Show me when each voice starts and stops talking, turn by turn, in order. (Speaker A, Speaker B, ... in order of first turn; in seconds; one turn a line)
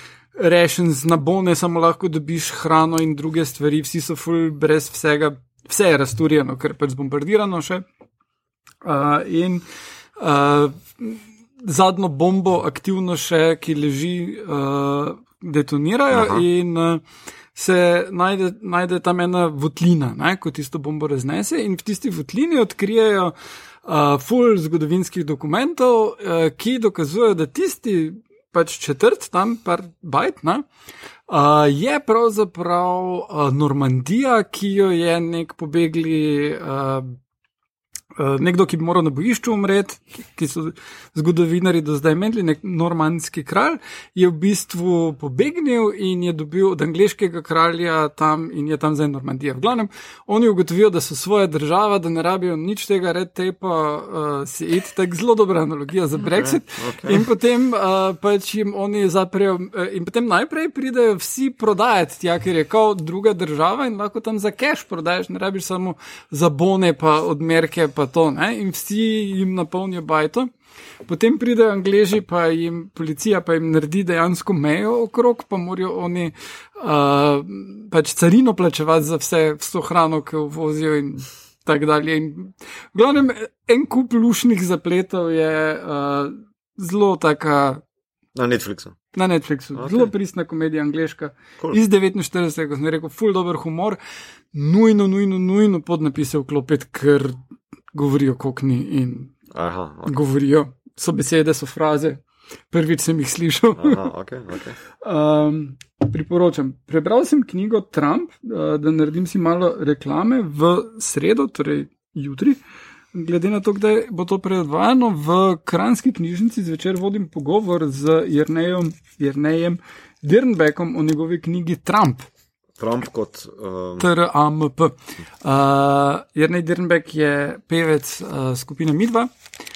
Speaker A: 0.3-7.8
Speaker A: 8.8-9.6
Speaker A: 10.2-23.3
Speaker B: 16.1-16.4
Speaker A: 23.8-30.7
Speaker A: 31.3-37.1
Speaker A: 38.1-70.5
Speaker B: 56.4-57.2
Speaker A: 71.0-87.8
Speaker B: 88.3-89.0
Speaker A: 89.1-94.0
Speaker B: 89.7-90.1
Speaker A: 94.5-97.4
Speaker A: 97.9-99.3
Speaker B: 99.5-100.2
Speaker A: 100.0-104.0
Speaker B: 103.7-104.8
Speaker A: 105.0-112.6
Speaker A: 113.1-122.3
Speaker B: 122.8-124.1
Speaker A: 124.0-129.3